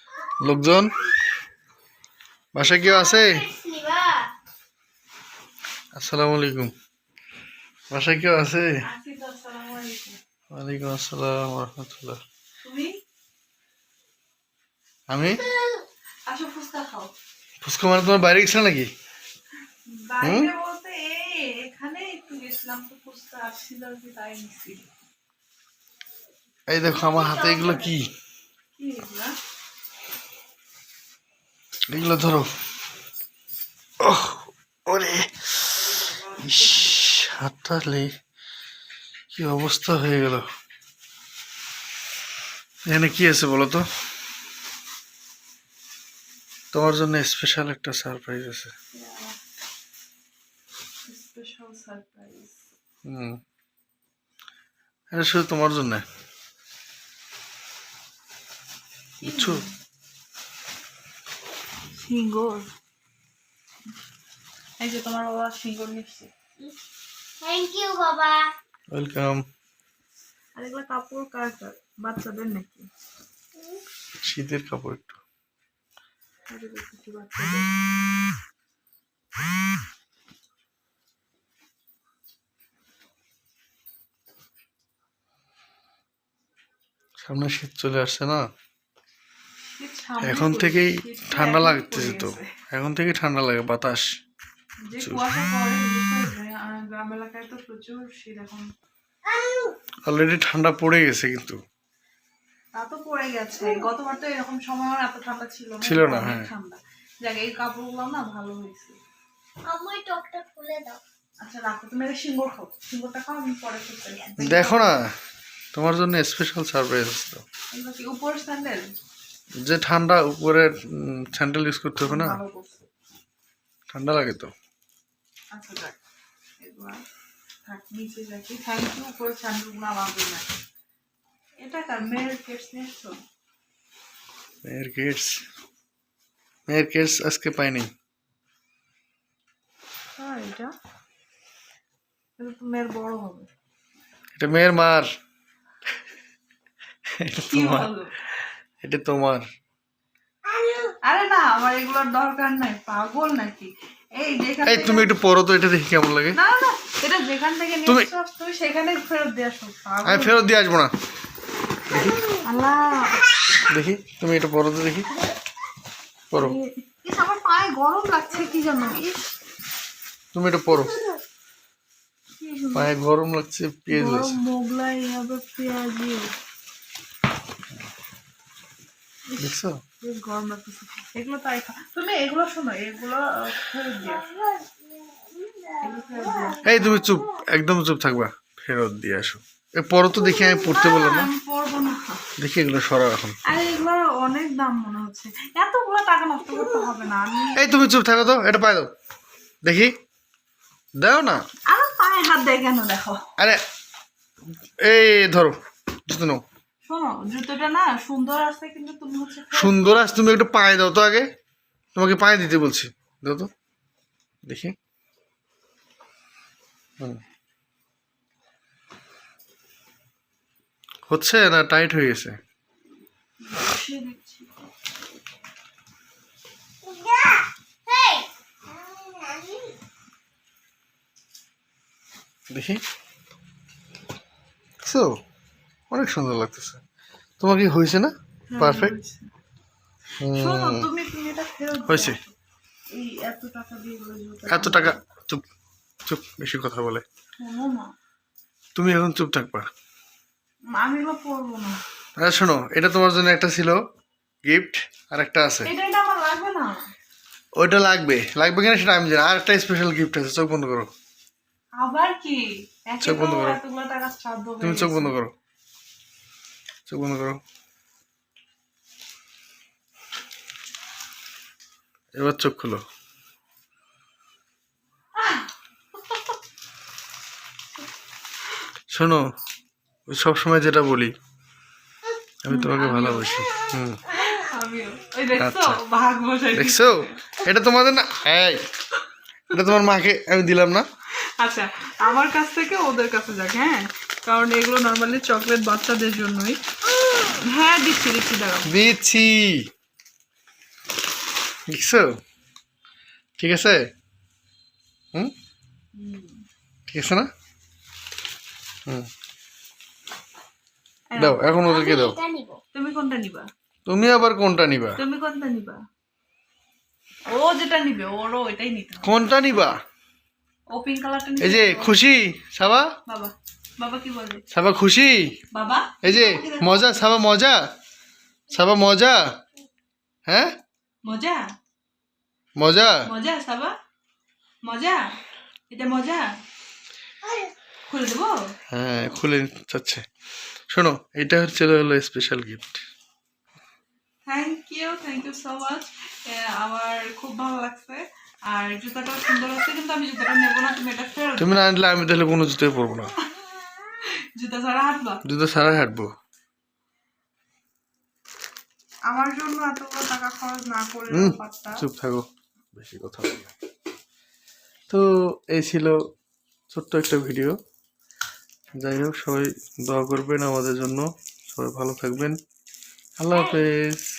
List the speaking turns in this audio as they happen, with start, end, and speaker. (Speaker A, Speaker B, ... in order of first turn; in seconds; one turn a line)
Speaker A: 0.4-0.9
Speaker A: 2.5-3.5
Speaker B: 2.7-4.3
Speaker A: 6.0-6.7
Speaker A: 7.9-8.8
Speaker C: 8.8-10.2
Speaker A: 10.5-12.2
Speaker C: 12.6-13.0
Speaker A: 15.1-15.5
Speaker C: 16.3-17.1
Speaker A: 17.6-18.9
Speaker C: 19.9-24.8
Speaker A: 20.2-20.5
Speaker A: 26.7-28.1
Speaker B: 27.1-27.7
Speaker C: 28.8-29.4
Speaker A: 31.9-32.5
Speaker A: 34.0-35.9
Speaker C: 36.1-36.7
Speaker A: 36.4-38.1
Speaker A: 39.3-40.5
Speaker A: 42.9-43.9
Speaker A: 46.7-48.7
Speaker C: 48.9-49.4
Speaker C: 51.0-52.6
Speaker A: 53.0-53.4
Speaker A: 55.1-56.0
Speaker A: 59.2-59.6
Speaker C: 59.2-59.7
Speaker C: 62.0-62.7
Speaker C: 64.8-66.3
Speaker B: 67.4-68.5
Speaker A: 68.9-69.4
Speaker C: 70.6-72.9
Speaker A: 74.2-75.2
Speaker C: 76.5-77.7
Speaker A: 87.2-88.5
Speaker C: 89.8-92.5
Speaker A: 90.2-94.1
Speaker C: 94.8-98.7
Speaker B: 99.2-99.8
Speaker A: 100.1-101.6
Speaker C: 102.7-109.0
Speaker A: 105.8-106.5
Speaker B: 109.7-111.0
Speaker C: 111.4-114.8
Speaker A: 114.4-115.1
Speaker A: 115.7-117.4
Speaker C: 117.7-118.9
Speaker A: 119.6-122.4
Speaker C: 122.0-122.8
Speaker A: 123.9-124.5
Speaker C: 125.5-126.0
Speaker C: 126.6-127.0
Speaker C: 127.6-130.5
Speaker C: 131.6-133.2
Speaker A: 134.6-135.4
Speaker A: 136.7-137.9
Speaker C: 140.2-140.7
Speaker C: 142.4-143.5
Speaker A: 144.4-145.1
Speaker A: 147.2-147.9
Speaker C: 147.5-148.1
Speaker A: 148.8-149.4
Speaker B: 150.6-150.9
Speaker C: 151.0-155.1
Speaker A: 154.6-156.4
Speaker C: 156.3-160.4
Speaker A: 160.1-160.9
Speaker A: 161.9-162.2
Speaker C: 162.4-163.3
Speaker A: 163.7-165.1
Speaker A: 166.3-166.6
Speaker C: 166.4-169.2
Speaker A: 170.3-171.0
Speaker C: 172.4-172.9
Speaker A: 172.7-174.3
Speaker C: 173.9-176.3
Speaker C: 179.3-184.3
Speaker A: 179.4-179.8
Speaker B: 184.2-185.8
Speaker C: 185.8-186.7
Speaker A: 186.6-191.3
Speaker C: 190.2-192.2
Speaker A: 192.4-193.4
Speaker C: 193.4-197.6
Speaker A: 197.6-198.9
Speaker A: 199.6-199.9
Speaker A: 201.0-201.4
Speaker C: 201.7-203.2
Speaker A: 204.8-206.4
Speaker C: 206.8-209.8
Speaker A: 209.5-211.3
Speaker A: 211.9-213.5
Speaker A: 214.5-214.8
Speaker A: 221.1-222.4
Speaker C: 223.4-224.5
Speaker B: 226.8-229.7
Speaker A: 232.5-232.8
Speaker A: 234.8-235.2
Speaker A: 235.9-236.8
Speaker A: 237.4-238.9
Speaker C: 238.5-239.3
Speaker A: 240.2-240.9
Speaker C: 240.3-242.3
Speaker A: 241.9-242.2
Speaker C: 242.9-245.0
Speaker A: 244.5-245.4
Speaker A: 246.1-247.0
Speaker C: 247.4-247.9
Speaker A: 248.8-249.7
Speaker C: 250.7-251.8
Speaker A: 252.2-253.8
Speaker A: 254.4-255.7
Speaker C: 255.6-256.9
Speaker A: 257.6-260.9
Speaker C: 261.8-265.2
Speaker A: 263.0-263.6
Speaker A: 264.6-265.3
Speaker A: 266.9-267.4
Speaker A: 272.1-272.8
Speaker C: 275.2-275.5
Speaker A: 278.9-279.2
Speaker A: 280.1-281.1
Speaker A: 282.4-284.0
Speaker C: 282.5-283.4
Speaker C: 284.1-287.3
Speaker A: 285.4-285.8
Speaker A: 286.5-288.7
Speaker A: 289.5-290.9
Speaker C: 291.4-296.6
Speaker C: 297.2-298.7
Speaker A: 298.7-299.7
Speaker A: 301.7-302.1
Speaker A: 303.4-303.9
Speaker C: 305.9-306.4
Speaker A: 306.9-307.3
Speaker C: 311.1-311.4
Speaker A: 311.2-312.2
Speaker B: 311.6-312.6
Speaker C: 312.7-313.5
Speaker A: 313.9-315.0
Speaker C: 315.0-315.8
Speaker C: 317.3-319.2
Speaker A: 319.0-319.8
Speaker C: 320.7-322.0
Speaker A: 321.4-322.9
Speaker C: 323.1-324.4
Speaker A: 324.5-325.3
Speaker C: 325.5-326.9
Speaker A: 326.0-327.6
Speaker A: 328.5-329.2
Speaker A: 330.3-330.6
Speaker C: 331.1-331.5
Speaker A: 332.6-333.1
Speaker C: 333.1-333.8
Speaker C: 334.6-335.1
Speaker C: 335.7-336.4
Speaker C: 337.9-338.5
Speaker A: 338.7-340.0
Speaker A: 340.7-342.8
Speaker C: 344.3-351.6
Speaker A: 351.4-353.1
Speaker C: 354.4-355.2
Speaker A: 355.2-356.1
Speaker C: 359.1-361.9
Speaker A: 361.1-363.5
Speaker A: 364.9-366.0
Speaker A: 366.7-367.6
Speaker A: 368.8-372.4
Speaker A: 373.2-374.1